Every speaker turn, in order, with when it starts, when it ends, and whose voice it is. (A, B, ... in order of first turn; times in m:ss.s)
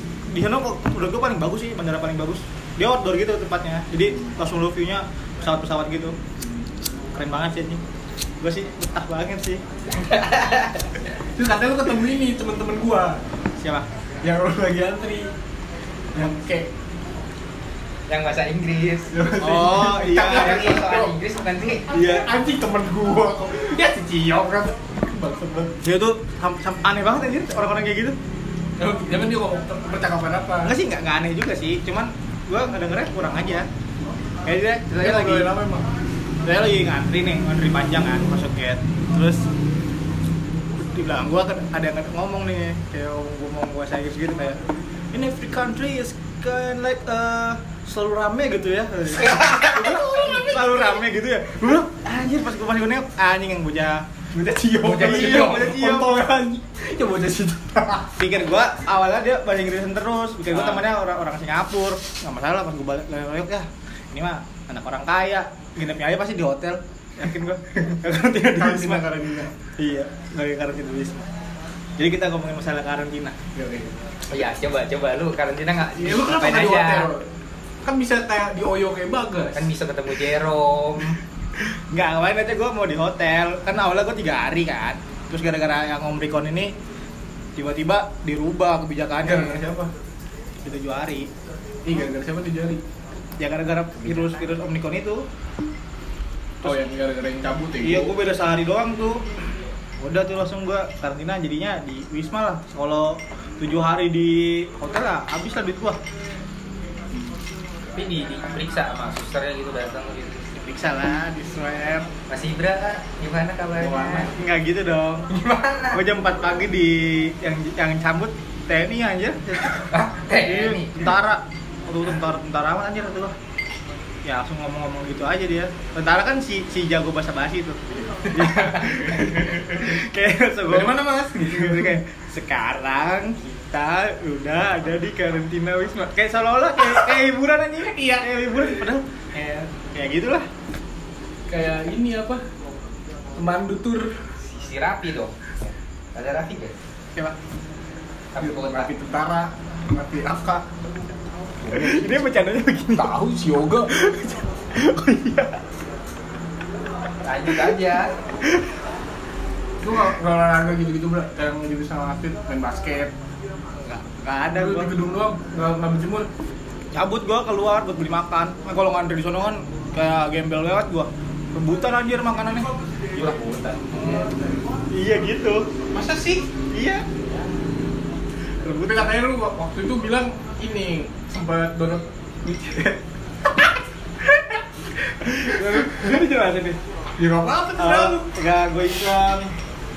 0:00.3-0:06.2 A
0:06.4-0:06.7 B
0:07.1-0:07.8 A
0:08.4-0:09.6 A
0:09.9-0:10.9 C
0:11.4-0:13.2 B
0:13.6-0:13.9 A
0:14.2-0:15.3 B
0:16.1-0:16.7 B
0:18.1-0:19.1 C
0:19.1-0:21.2 B
0:19.4-0:20.8 A
0:20.2-0:21.9 C
0:21.9-0:25.7 B
0:21.9-0:22.3 A
0:25.8-0:28.2 A
0:28.8-0:30.7 B
0:30.6-0:33.7 A
0:34.4-0:35.5 A
0:34.9-0:35.9 B
0:36.4-0:39.4 A
0:40.8-0:44.6 A
0:45.1-0:54.1 A
0:49.2-0:50.0 C
0:49.5-0:50.9 B
0:54.3-0:58.1 B
0:54.8-0:55.7 C
0:54.9-0:56.2 A
0:58.2-1:09.1 A
1:08.6-1:09.5 B
1:09.8-1:11.3 A
1:12.0-1:13.4 A
1:13.6-1:13.9 B
1:14.3-1:17.1 C
1:16.0-1:17.3 B
1:17.8-1:19.7 B
1:19.6-1:21.2 C
1:21.9-1:26.7 A
1:27.6-1:29.7 A
1:29.2-1:29.9 B
1:30.6-1:31.3 A
1:31.8-1:32.8 B
1:33.4-1:35.2 A
1:36.6-1:38.1 B
1:37.8-1:39.2 A
1:40.0-1:46.0 A
1:48.0-1:50.5 C
1:50.6-1:52.1 A
1:52.3-1:54.3 C
1:53.8-1:54.3 B
1:54.3-1:55.3 A
1:55.3-1:56.0 C
1:55.9-1:59.9 A
1:59.9-2:01.1 C
2:00.4-2:03.3 A
2:04.2-2:20.5 A
2:08.1-2:10.0 B
2:10.7-2:12.0 B
2:18.0-2:18.3 B
2:21.5-2:22.4 B
2:23.4-2:24.2 B
2:24.4-2:26.8 C
2:28.3-2:28.9 C
2:28.4-2:30.7 B
2:31.6-2:32.3 B
2:31.7-2:33.1 A
2:33.0-2:33.9 B
2:33.9-2:35.6 A
2:37.2-2:38.1 C
2:39.8-2:43.1 B
2:43.8-2:44.9 A
2:44.6-2:46.3 B
2:46.9-2:52.7 A
2:53.1-2:53.8 C
2:53.9-2:54.3 A
2:54.0-2:54.2 B
2:54.9-2:55.7 A
2:56.0-2:56.4 B
2:56.7-2:57.1 A
2:58.6-2:59.1 A
2:58.8-3:03.0 B
3:05.2-3:06.8 A
3:05.5-3:06.2 B
3:07.2-3:08.3 B
3:07.8-3:09.5 A